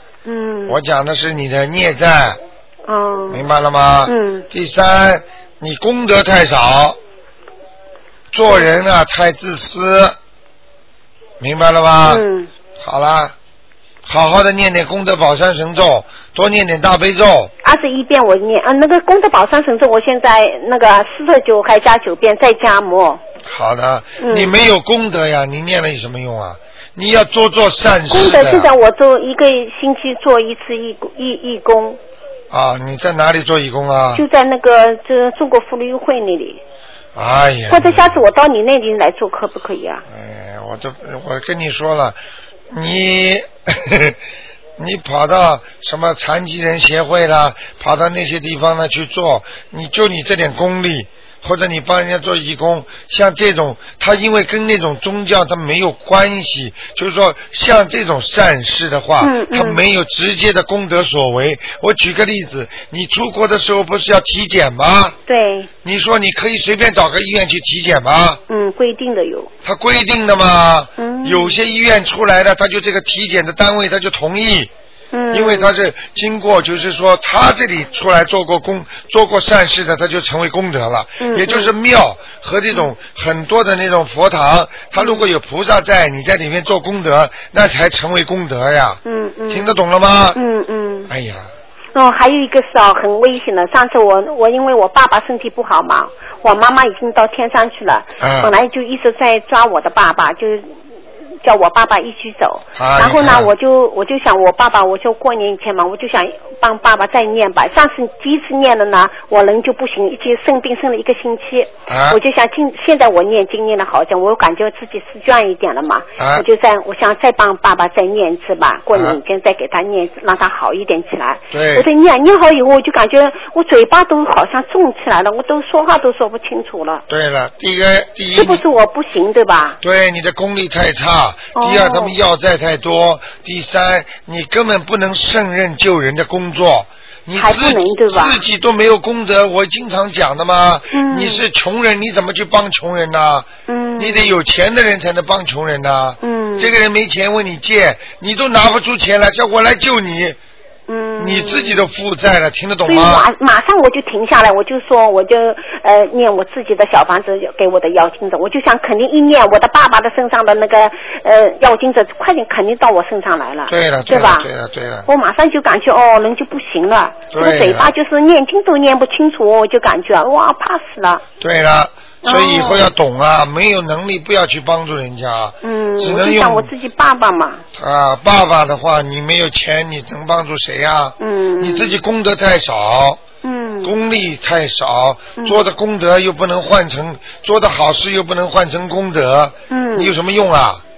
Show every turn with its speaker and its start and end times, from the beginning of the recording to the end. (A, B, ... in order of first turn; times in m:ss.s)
0:00.2-0:00.8 A
0:00.7-0:02.4 B
0:02.9-0:03.4 A
0:03.3-0:07.0 B
0:04.1-0:04.5 A
0:08.3-0:10.2 B
0:11.4-0:12.2 B
0:12.0-0:12.5 A
0:12.8-0:13.4 B
0:14.1-0:17.5 B
0:17.6-0:23.2 A
0:23.5-0:28.7 B
0:24.2-0:24.6 A
0:28.1-0:32.0 A
0:32.5-0:34.2 B
0:34.2-0:36.6 A
0:37.2-0:38.2 B
0:37.7-0:40.0 A
0:40.1-0:42.2 B
0:42.7-0:44.2 B
0:44.8-1:05.2 B
0:59.2-0:59.8 A
1:05.3-1:05.7 A
1:05.8-1:08.4 B
1:08.5-1:09.5 A
1:09.6-1:14.7 B
1:11.0-1:11.6 A
1:15.1-1:15.7 A
1:15.3-1:30.4 B
1:21.2-1:21.7 A
1:25.0-1:25.3 A
1:29.0-1:29.8 A
1:30.3-1:31.1 A
1:31.1-1:31.5 B
1:31.9-1:40.7 A
1:38.2-1:38.5 B
1:41.4-2:07.0 A
1:42.8-1:43.5 B
1:51.9-1:52.2 B
1:56.2-1:56.4 B
1:58.9-1:59.2 B
2:01.5-2:01.9 B
2:07.1-2:08.6 B
2:08.3-2:09.8 A
2:09.8-2:30.4 B
2:11.6-2:12.2 A
2:17.4-2:18.4 A
2:20.9-2:21.5 A
2:23.7-2:24.4 A
2:26.2-2:26.7 A
2:30.9-2:31.9 A
2:31.2-2:33.3 B
2:32.9-2:44.5 A
2:43.7-2:45.1 B
2:45.1-2:51.2 A
2:47.3-2:47.9 B
2:51.4-2:56.7 B
2:52.2-2:52.9 A
2:55.6-2:57.6 A
2:57.7-3:03.2 B
3:01.2-3:02.0 A
3:03.4-3:04.0 A
3:03.8-3:10.8 B
3:05.4-3:05.6 A
3:09.7-3:10.2 A